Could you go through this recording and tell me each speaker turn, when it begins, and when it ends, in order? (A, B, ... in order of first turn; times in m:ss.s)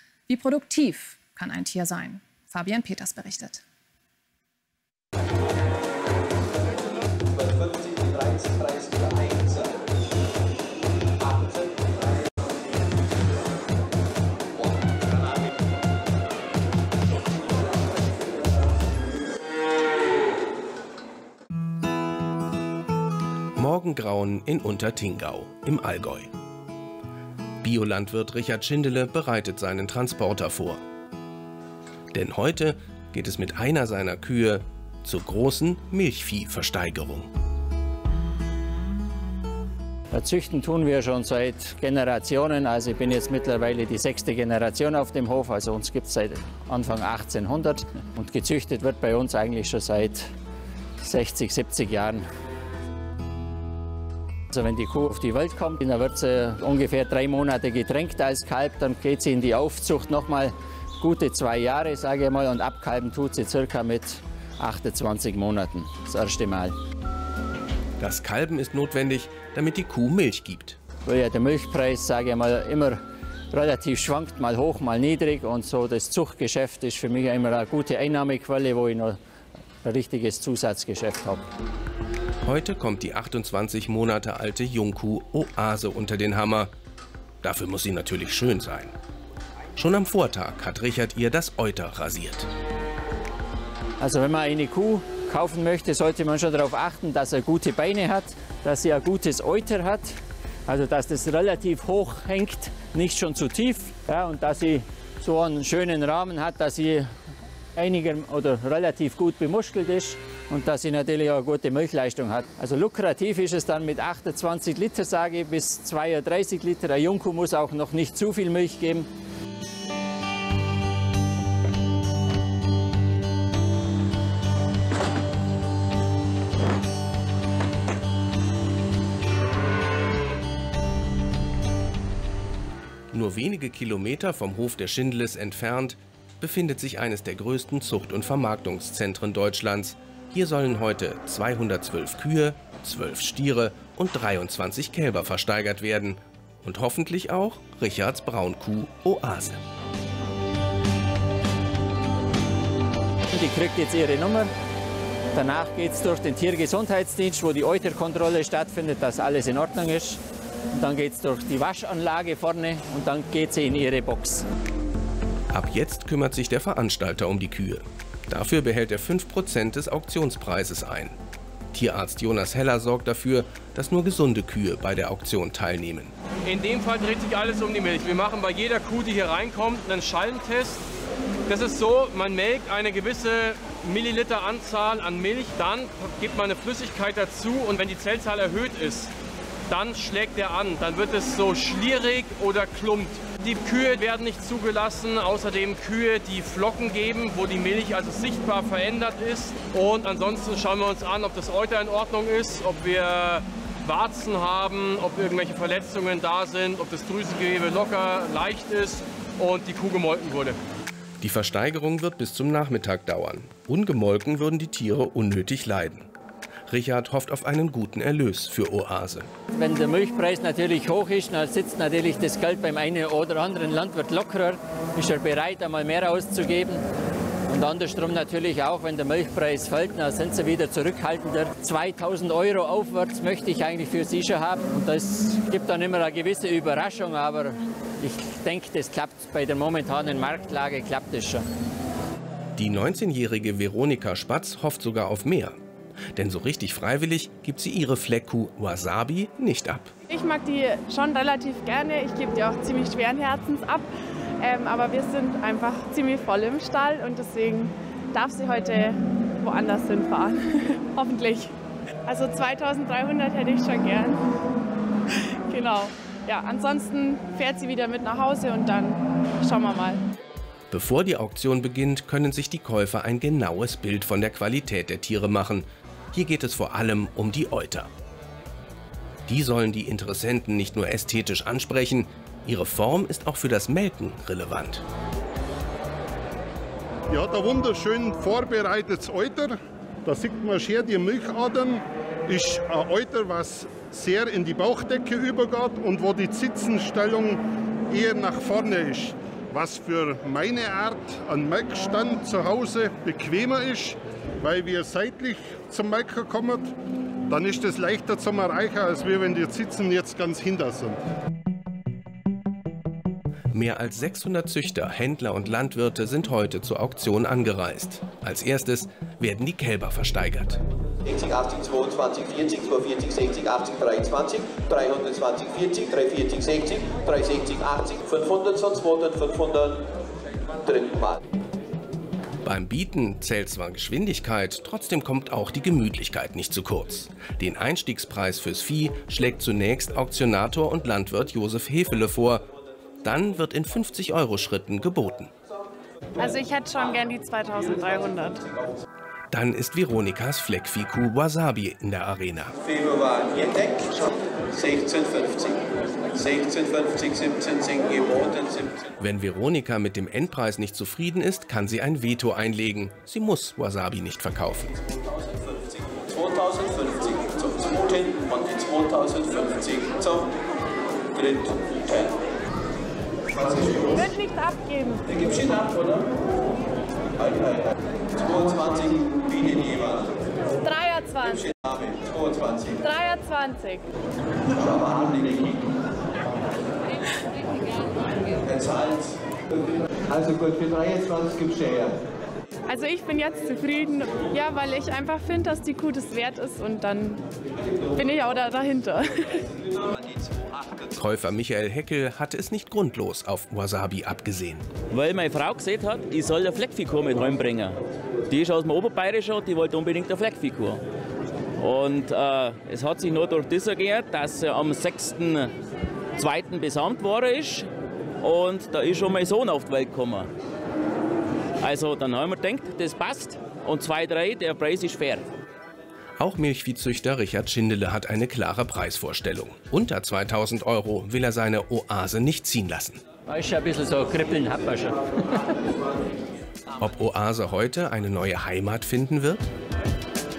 0:00.3-0:03.6 A
0:07.3-0:09.8 B
0:11.2-0:12.5 B
0:14.8-0:15.1 B
0:23.6-0:26.3 C
0:27.6-0:30.8 C
0:32.1-0:37.3 C
0:40.1-0:50.3 D
0:51.0-0:52.3 D
0:54.5-1:06.8 D
1:08.0-1:10.8 C
1:11.0-1:13.0 D
1:13.5-1:19.2 D
1:19.8-1:21.5 D
1:22.4-1:26.7 C
1:27.4-1:28.9 C
1:29.8-1:32.5 C
1:34.0-1:47.1 D
1:47.8-1:59.1 D
2:13.1-2:29.6 C
2:33.3-2:34.5 D
2:35.3-2:40.2 D
2:40.8-2:44.5 D
2:45.5-2:51.2 C
2:51.7-2:56.1 C
2:56.5-3:00.8 E
3:01.5-3:09.1 E
3:09.7-3:30.6 E
3:31.2-3:36.1 C
3:36.7-3:39.3 C
3:39.5-3:46.8 D
3:47.5-4:01.5 D
4:02.6-4:05.6 C
4:06.2-4:09.9 C
4:10.1-4:13.9 F
4:14.4-4:21.5 F
4:22.1-4:24.2 F
4:25.1-4:30.0 F
4:30.7-4:37.9 C
4:39.3-4:44.8 C
4:47.1-5:06.7 G
5:07.3-5:11.0 G
5:13.5-5:20.6 C
5:21.0-5:29.9 B
5:30.6-5:31.2 B
5:32.4-5:42.4 C
5:43.0-5:45.3 C
5:46.2-5:48.5 F
5:49.3-5:52.6 C
5:52.6-5:58.9 B
5:59.0-6:04.8 C
6:05.0-6:10.3 B
6:11.2-6:12.1 B
6:13.3-6:14.1 B
6:13.9-6:15.2 F
6:15.1-6:16.0 B
6:17.2-6:20.2 B
6:20.6-6:21.5 F
6:21.3-6:22.8 B
6:22.8-6:23.8 F
6:24.5-6:25.7 B
6:28.4-6:29.1 B
6:30.1-6:32.0 B
6:32.7-6:37.2 F
6:37.9-6:39.4 F
6:39.8-6:40.9 B
6:41.0-6:44.7 C
6:44.9-6:50.8 H
6:51.6-6:55.5 H
6:56.2-6:57.7 H
6:58.2-7:00.3 H
7:01.6-7:05.3 H
7:06.2-7:13.0 C
7:13.3-7:15.5 D
7:16.8-7:19.5 C